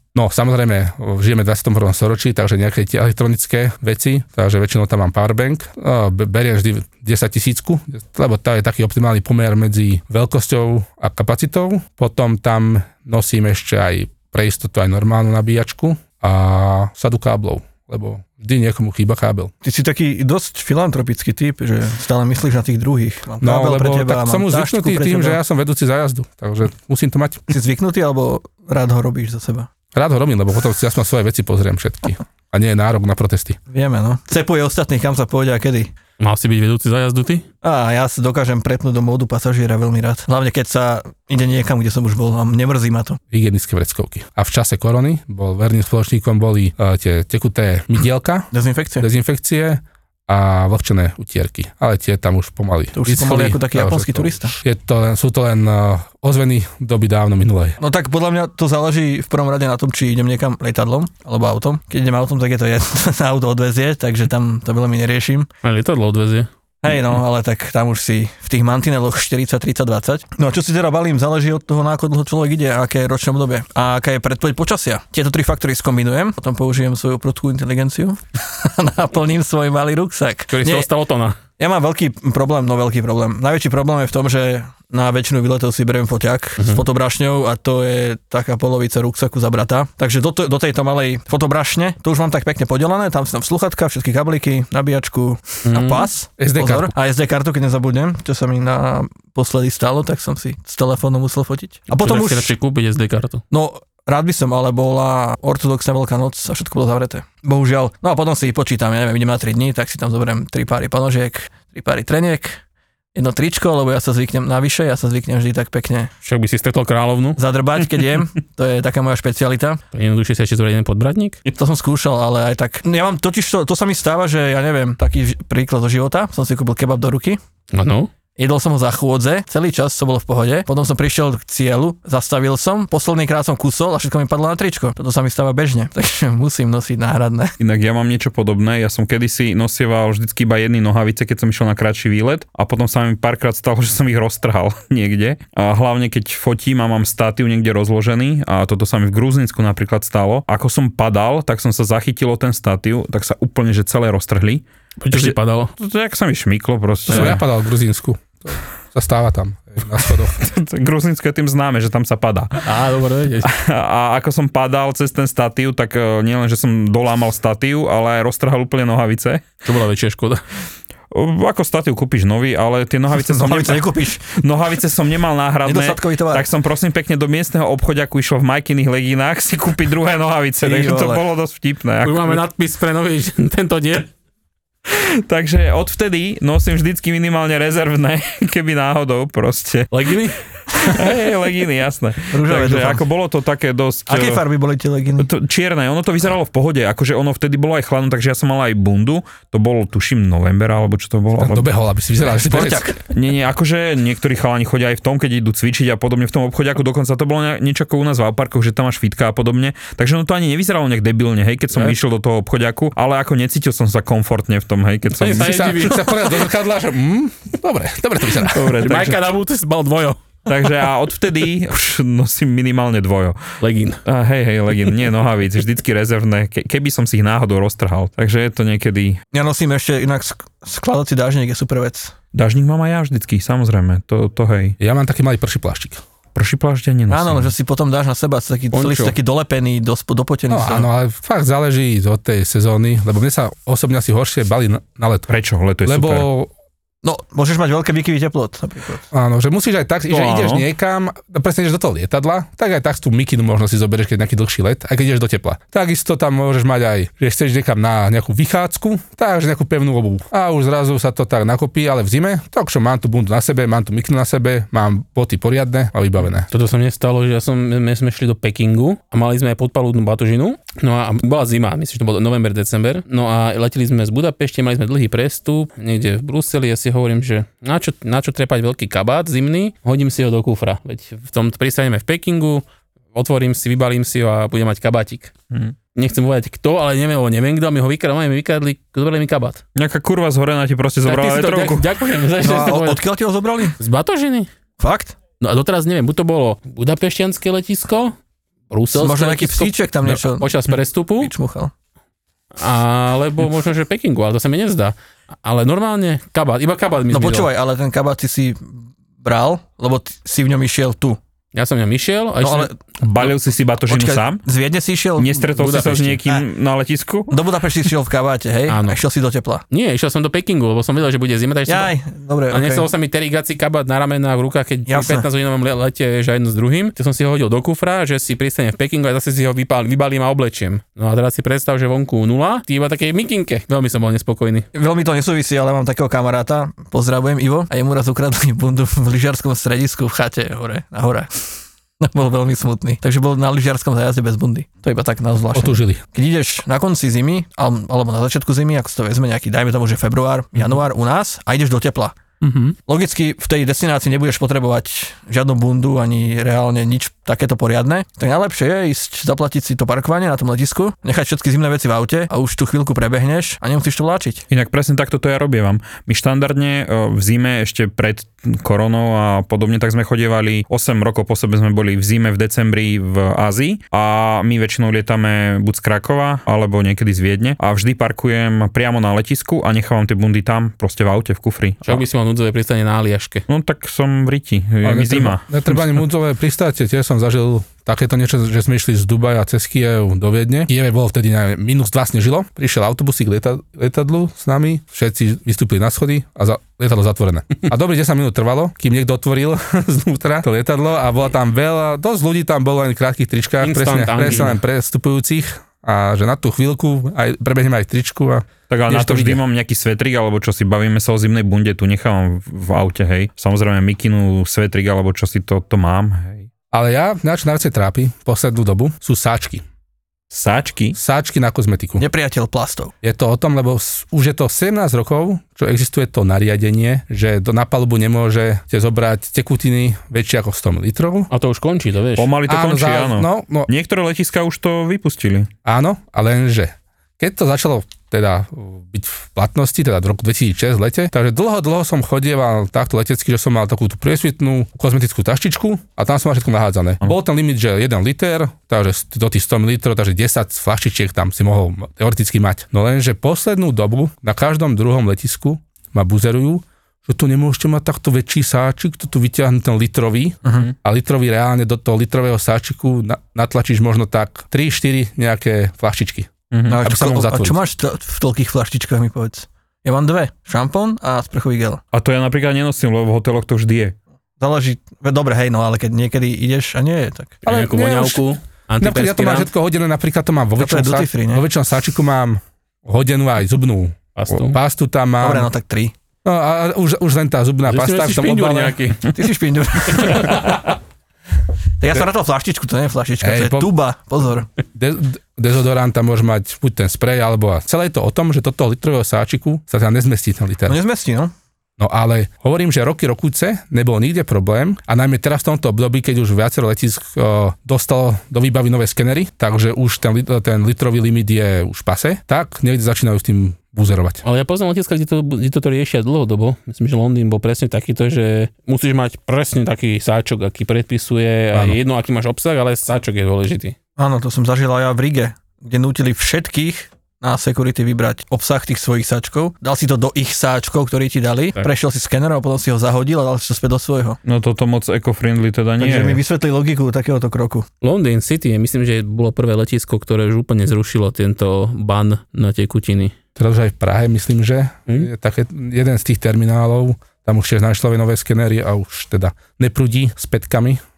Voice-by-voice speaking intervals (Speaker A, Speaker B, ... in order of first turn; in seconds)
Speaker A: 0.1-19.5, 23.4-27.5, 29.9-33.6, 43.3-57.8, 96.4-96.9, 157.1-160.4, 201.3-202.9, 215.3-218.8, 234.8-236.0, 240.5-245.3, 245.8-246.5, 249.1-266.5, 345.5-346.0, 384.8-409.4, 416.7-419.6, 420.9-422.0, 423.0-431.3, 432.5-433.7, 435.6-467.6, 477.4-478.2, 478.8-485.5, 486.2-488.8, 493.2-493.7, 494.7-500.8, 501.8-514.2, 521.5-521.8, 543.4-550.8
Speaker B: 19.6-25.4, 27.5-29.7, 33.7-35.9, 37.6-43.2, 48.5-49.1, 53.0-54.5, 57.8-65.5, 66.8-80.9, 81.6-102.5, 103.5-112.6, 113.1-116.1, 117.4-119.8, 121.5-127.4, 128.4-137.5, 173.1-174.3, 175.6-176.5, 180.6-181.2, 192.3-193.0, 194.1-195.3, 202.3-203.0, 229.3-232.1, 237.1-240.9, 247.0-249.0, 292.4-293.8, 294.8-295.1, 298.9-300.5, 301.2-301.7, 307.1-311.2, 312.4-312.7, 313.9-315.3, 317.3-319.6, 321.7-322.9, 324.9-325.2, 334.7-341.5, 342.0-352.2, 352.9-364.4, 422.0-422.9, 460.4-460.7, 466.7-471.8, 474.4-477.4, 480.6-481.4, 485.2-485.9, 489.1-490.6, 491.8-494.5, 500.7-501.3, 524.0-534.2, 535.8-537.7
Speaker C: 36.2-37.4, 65.6-66.5, 80.5-81.4, 95.7-96.1, 101.9-103.4, 116.2-117.4, 119.9-121.4, 127.7-128.1, 155.0-155.7, 157.1-157.3, 162.6-163.5, 169.6-170.4, 182.0-184.1, 189.9-190.4, 215.2-216.3, 218.8-220.2, 223.6-224.0, 238.7-239.2, 266.5-285.3, 285.9-289.6, 291.0-293.0, 293.8-294.5, 295.4-298.1, 298.7-301.3, 302.6-307.5, 311.5-312.7, 315.5-316.2, 318.7-319.0, 319.7-321.9, 322.5-334.7, 352.4-352.7, 381.8-383.4, 403.6-404.6, 431.3-432.3, 477.4-479.5, 484.1-484.6, 487.7-489.1, 514.2-523.7, 537.8-543.1
Speaker D: 137.6-157.4, 160.4-162.7, 163.4-169.4, 171.1-182.4, 184.9-189.9, 190.7-194.4, 195.2-201.7, 203.1-215.7, 218.5-219.2, 220.5-223.4, 224.0-229.2, 232.3-234.8, 236.3-237.5, 245.3-246.3, 250.1-250.6, 289.7-291.8, 313.0-314.4, 315.2-317.4, 364.5-382.0, 383.5-385.9, 408.7-416.5, 420.3-421.0, 432.2-435.5, 466.5-466.8, 471.9-473.9, 534.2-536.2